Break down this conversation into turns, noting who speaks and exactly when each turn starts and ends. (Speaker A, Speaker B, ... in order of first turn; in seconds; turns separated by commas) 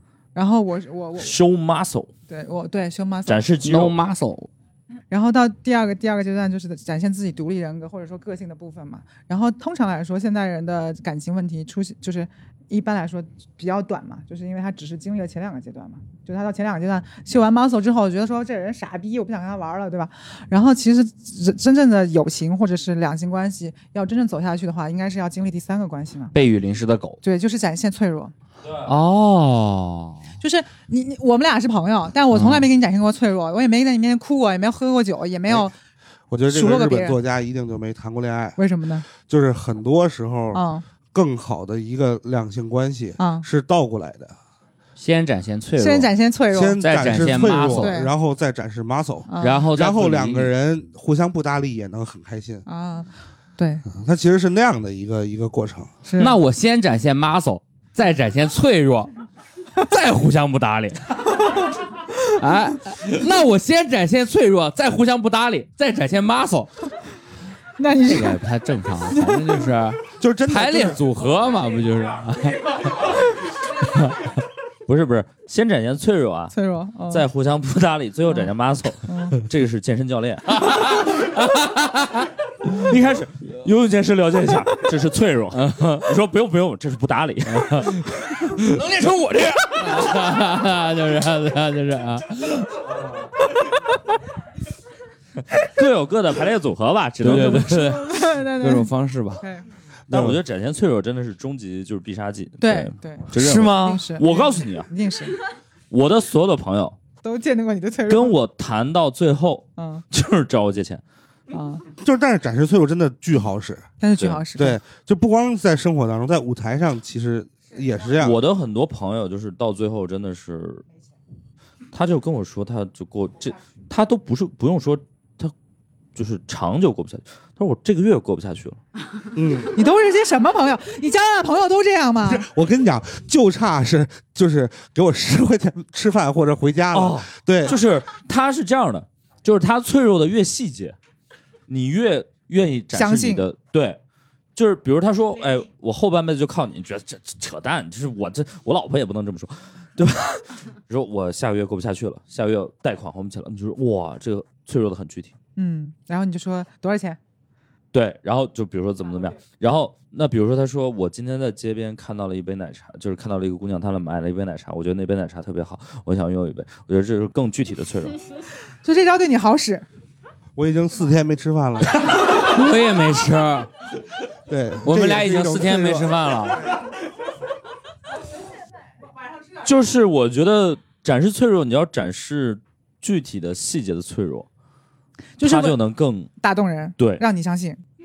Speaker A: 0.3-1.3, Speaker B: 1.2-2.1, Speaker A: 2.3-3.4, Speaker B: 3.3-4.0, Speaker C: 3.6-4.5, Speaker A: 5.1-26.3, Speaker C: 26.3-27.2, Speaker A: 27.2-28.3, Speaker B: 28.6-28.9, Speaker C: 28.9-30.3, Speaker A: 30.4-35.7, Speaker C: 32.3-32.7, Speaker D: 35.5-35.7, Speaker D: 36.3-44.4, Speaker A: 36.5-37.2, Speaker A: 38.6-39.1, Speaker A: 40.5-40.9, Speaker A: 43.2-43.5, Speaker C: 45.0-46.1, Speaker A: 45.8-46.8, Speaker D: 46.5-52.6, Speaker C: 46.8-47.9, Speaker A: 47.7-48.1, Speaker A: 49.3-49.7, Speaker C: 49.4-50.5, Speaker A: 52.7-53.9, Speaker D: 53.9-55.9, Speaker A: 56.0-56.4, Speaker C: 56.2-59.1, Speaker C: 59.8-61.5, Speaker C: 62.3-66.7, Speaker A: 67.8-68.4, Speaker C: 68.0-73.0, Speaker A: 69.1-69.4, Speaker D: 70.2-71.0, Speaker B: 74.9-76.5, Speaker A: 76.5-77.2, Speaker B: 77.1-80.6, Speaker A: 79.1-79.4, Speaker C: 80.5-82.3, Speaker B: 82.7-88.8, Speaker C: 85.5-86.1, Speaker C: 87.5-92.8, Speaker B: 89.8-90.1, Speaker B: 95.7-97.9, Speaker C: 97.2-99.4, Speaker A: 97.7-99.7, Speaker D: 100.1-100.4, Speaker B: 100.1-104.9, Speaker A: 102.6-105.4, Speaker C: 103.3-104.0, Speaker B: 105.9-107.0, Speaker A: 107.2-108.3, Speaker B: 108.1-111.0, Speaker A: 109.8-110.0, Speaker A: 111.5-111.8, Speaker D: 112.0-113.9, Speaker A: 114.0-114.8, Speaker D: 114.6-118.4, Speaker B: 118.2-120.8, Speaker B: 121.9-125.5, Speaker B: 126.2-128.8, Speaker D: 129.3-129.8, Speaker A: 129.7-132.5, Speaker D: 132.2-137.8, Speaker B: 136.9-141.0, Speaker B: 141.7-144.0, Speaker A: 142.9-143.4, Speaker B: 144.6-155.3, Speaker A: 155.6-157.2, Speaker B: 157.9-168.2, Speaker A: 168.8-169.9, Speaker D: 170.6-171.9, Speaker C: 172.2-173.7, Speaker D: 174.5-176.1, Speaker C: 174.8-176.6, Speaker B: 179.6-184.5, Speaker A: 185.4-185.8, Speaker B: 185.4-186.3, Speaker A: 186.4-187.8, Speaker B: 187.0-187.2